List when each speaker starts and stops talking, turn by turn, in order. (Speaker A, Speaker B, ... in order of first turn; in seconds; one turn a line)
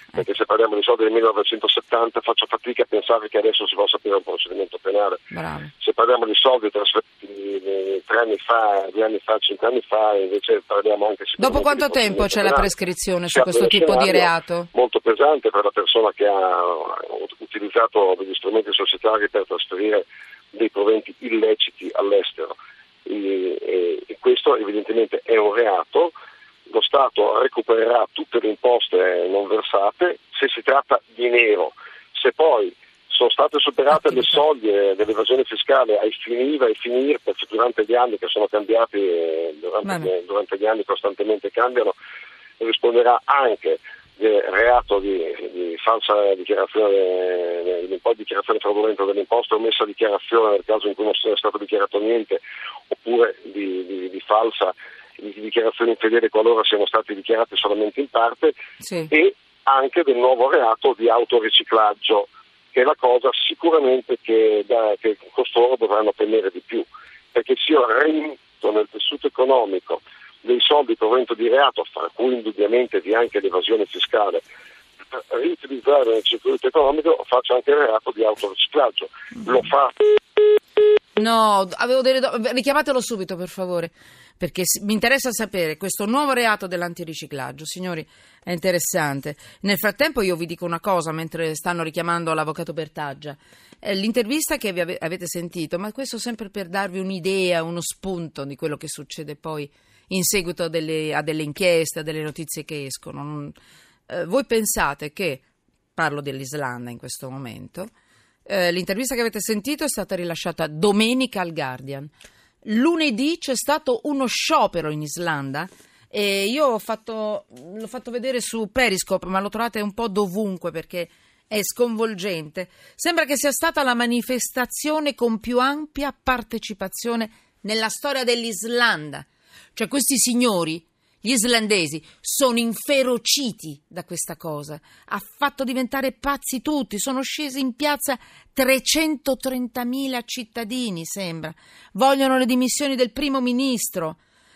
Speaker A: 0.1-5.2
Speaker B: 5.3-5.7
Speaker A: 5.8-12.7
Speaker B: 11.4-14.7
Speaker A: 13.3-26.1
Speaker A: 26.7-41.9
Speaker B: 39.8-40.1
Speaker A: 42.6-52.4
Speaker A: 52.9-58.5
Speaker B: 58.8-59.1
Speaker A: 59.1-74.4
Speaker A: 75.3-80.2
Speaker B: 81.2-103.5
Speaker B: 104.1-105.4
Speaker B: 105.9-107.9
Speaker B: 108.5-112.1
Speaker B: 112.6-144.2